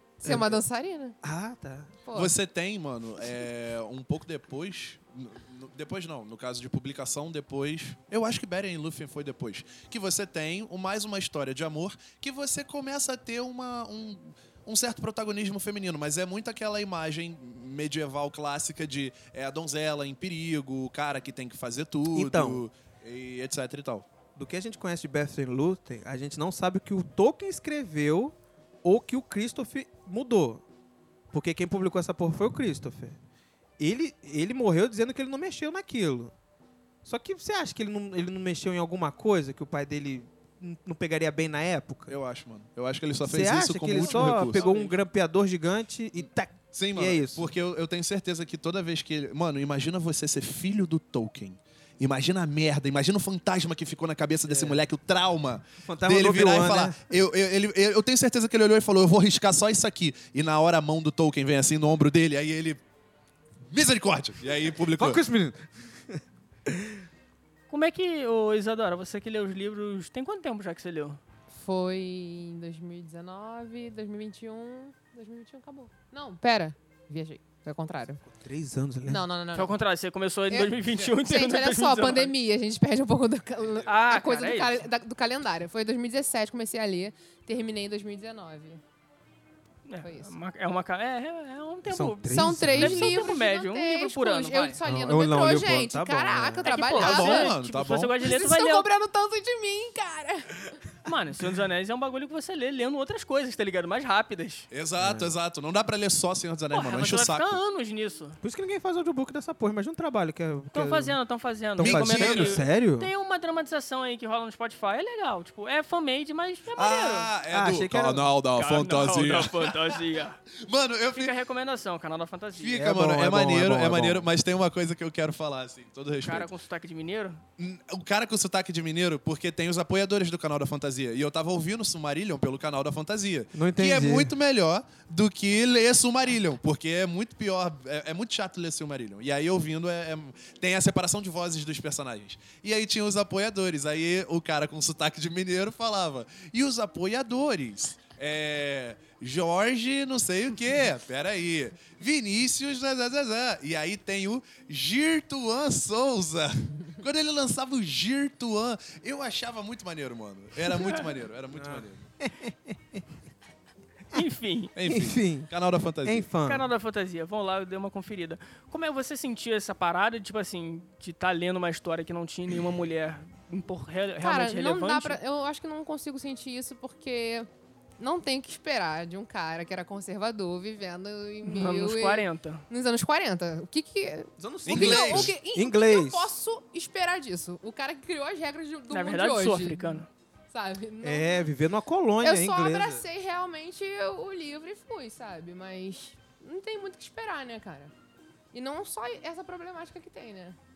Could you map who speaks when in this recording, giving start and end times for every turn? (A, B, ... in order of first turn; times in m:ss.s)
0:00.2-0:01.2 A
0:00.2-0:00.6 B
0:01.2-0:01.9 B
0:02.0-0:02.3 A
0:02.1-0:24.0 C
0:22.1-0:22.6 B
0:24.4-0:30.6 B
0:31.3-0:33.2 B
0:33.8-0:36.3 B
0:37.0-0:42.1 B
0:42.1-0:44.7 C
0:43.2-0:47.5 B
0:43.9-0:45.0 D
0:46.7-1:02.8 C
0:54.4-0:54.8 B
0:55.8-0:57.1 B
1:03.7-1:05.2 C
1:05.0-1:07.0 B
1:07.7-1:11.2 D
1:11.5-1:18.2 A
1:18.3-1:19.2 B
1:19.0-1:19.8 A
1:19.5-1:22.3 D
1:20.5-1:28.8 A
1:23.8-1:24.8 D
1:29.8-1:34.8 D
1:30.0-1:30.3 A
1:31.8-1:33.3 B
1:32.3-1:37.5 A
1:34.8-1:36.7 B
1:36.6-1:38.9 D
1:37.0-1:38.1 C
1:38.2-1:40.8 A
1:41.0-1:44.7 D
1:44.7-1:47.6 C
1:45.0-1:45.3 B
1:46.7-1:48.4 D
1:48.4-1:51.2 B
1:50.7-1:57.3 D
1:51.8-1:53.1 B
1:51.8-1:52.6 C
1:56.7-2:00.0 C
1:57.5-1:58.3 B
1:58.6-2:00.4 D
2:00.6-2:01.3 C
2:01.1-2:02.8 D
2:02.6-2:06.5 C
2:02.7-2:04.3 B
2:06.2-2:07.4 D
2:07.6-2:42.0 C
2:13.5-2:14.3 B
2:41.5-2:43.0 B
2:44.1-2:44.7 D
2:44.7-2:46.3 C
2:44.8-2:45.5 B
2:46.0-2:46.7 B
2:46.4-2:55.2 D
2:54.2-2:57.5 A
2:58.0-3:11.5 A
3:01.4-3:02.6 D
3:04.4-3:06.3 B
3:04.6-3:05.3 C
3:08.9-3:10.1 D
3:11.0-3:13.0 B
3:12.2-3:17.9 A
3:18.5-3:20.6 A